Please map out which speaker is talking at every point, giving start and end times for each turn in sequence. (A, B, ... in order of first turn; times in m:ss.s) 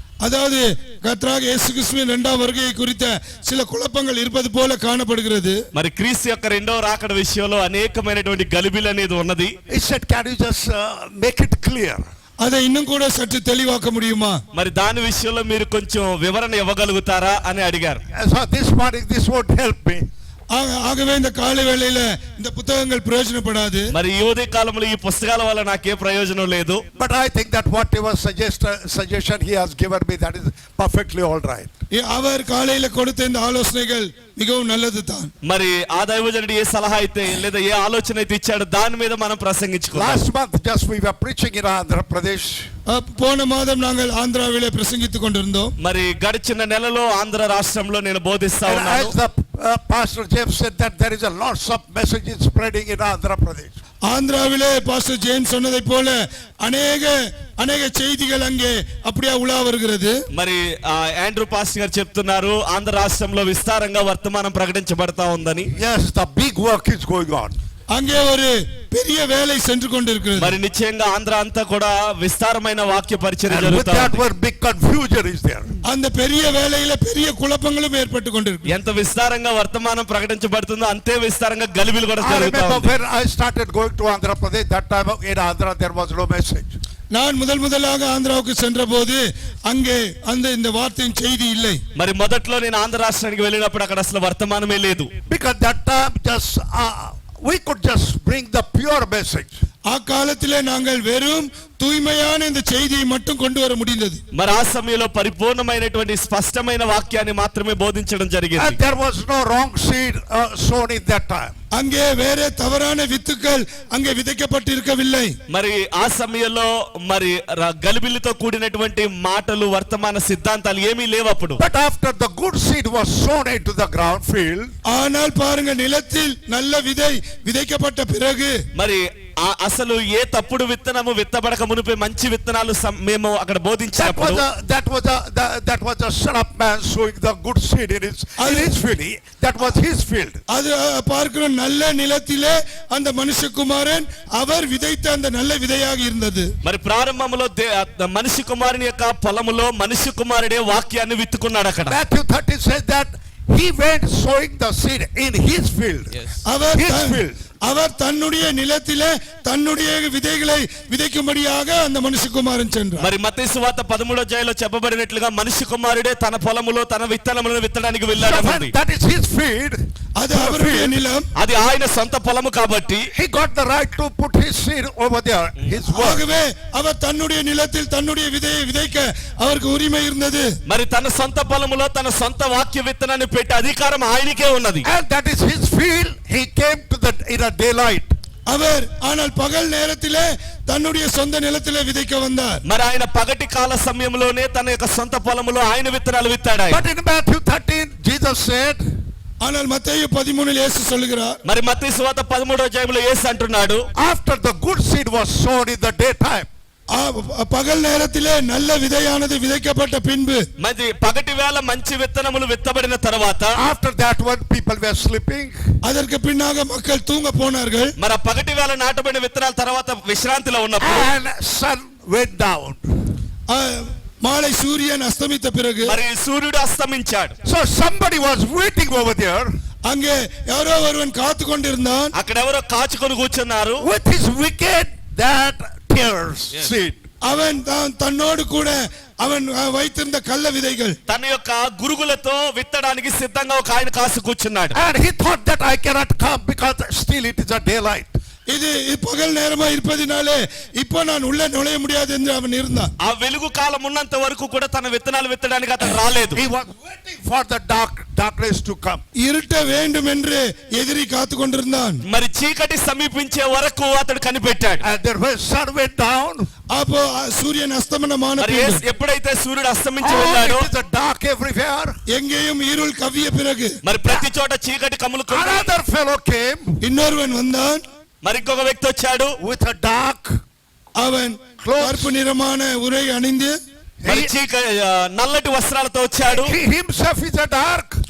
0:00.2-0:05.6 A
0:05.7-0:09.6 B
0:09.7-0:12.1 C
0:12.4-0:14.4 A
0:14.5-0:18.0 B
0:18.1-0:20.1 C
0:20.5-0:23.9 A
0:23.9-0:26.8 B
0:27.0-0:31.7 C
0:31.9-0:35.3 A
0:35.4-0:40.2 B
0:39.9-0:42.7 C
0:42.9-0:45.7 A
0:45.8-0:49.2 B
0:48.6-0:53.8 C
0:54.1-1:00.2 A
1:00.3-1:05.7 B
1:05.8-1:07.6 C
1:07.9-1:10.6 A
1:10.4-1:14.2 B
1:13.5-1:15.7 C
1:15.8-1:18.7 A
1:18.7-1:22.9 B
1:22.2-1:26.8 C
1:27.1-1:31.8 A
1:32.0-1:35.1 B
1:35.3-1:39.5 C
1:39.9-1:44.2 A
1:44.3-1:48.8 B
1:48.6-1:51.5 C
1:51.7-1:55.4 A
1:55.5-2:01.6 B
2:01.6-2:04.7 C
2:04.9-2:08.6 A
2:08.7-2:14.4 B
2:14.0-2:20.4 C
2:18.4-2:18.8 A
2:20.5-2:26.5 A
2:26.6-2:32.0 B
2:31.9-2:36.1 C
2:36.5-2:43.1 A
2:36.7-2:37.4 C
2:43.0-2:48.7 B
2:48.2-2:49.8 C
2:50.2-2:51.3 A
2:50.3-2:51.0 C
2:51.4-2:53.1 B
2:53.1-2:56.3 C
2:55.9-3:00.5 A
3:00.7-3:04.9 B
3:04.8-3:08.1 C
3:08.5-3:12.6 A
3:12.6-3:16.8 B
3:16.7-3:18.8 C
3:19.4-3:21.4 A
3:21.4-3:23.8 B
3:24.0-3:26.5 C
3:26.9-3:30.4 A
3:30.6-3:33.6 B
3:33.6-3:35.6 C
3:35.8-3:37.9 A
3:38.0-3:41.1 B
3:40.8-3:42.9 C
3:43.5-3:46.0 A
3:45.8-3:47.3 B
3:47.4-3:49.6 C
3:49.9-3:52.1 A
3:52.1-3:53.8 B
3:53.8-3:57.0 C
3:57.2-4:01.0 A
4:01.1-4:04.8 B
4:04.8-4:08.2 C
4:08.5-4:12.9 A
4:13.0-4:16.4 B
4:16.4-4:19.0 C
4:19.2-4:22.0 A
4:22.1-4:24.8 B
4:24.8-4:26.5 C
4:26.7-4:28.8 A
4:28.4-4:30.7 B
4:30.0-4:32.0 C
4:32.1-4:33.8 A
4:33.8-4:35.7 B
4:35.3-4:36.8 C
4:36.8-4:37.8 A
4:38.2-4:39.4 B
4:39.4-4:40.4 C
4:41.0-4:43.6 A
4:41.6-4:42.2 C
4:44.0-4:44.3 C
4:44.1-4:46.6 B
4:46.2-4:48.0 C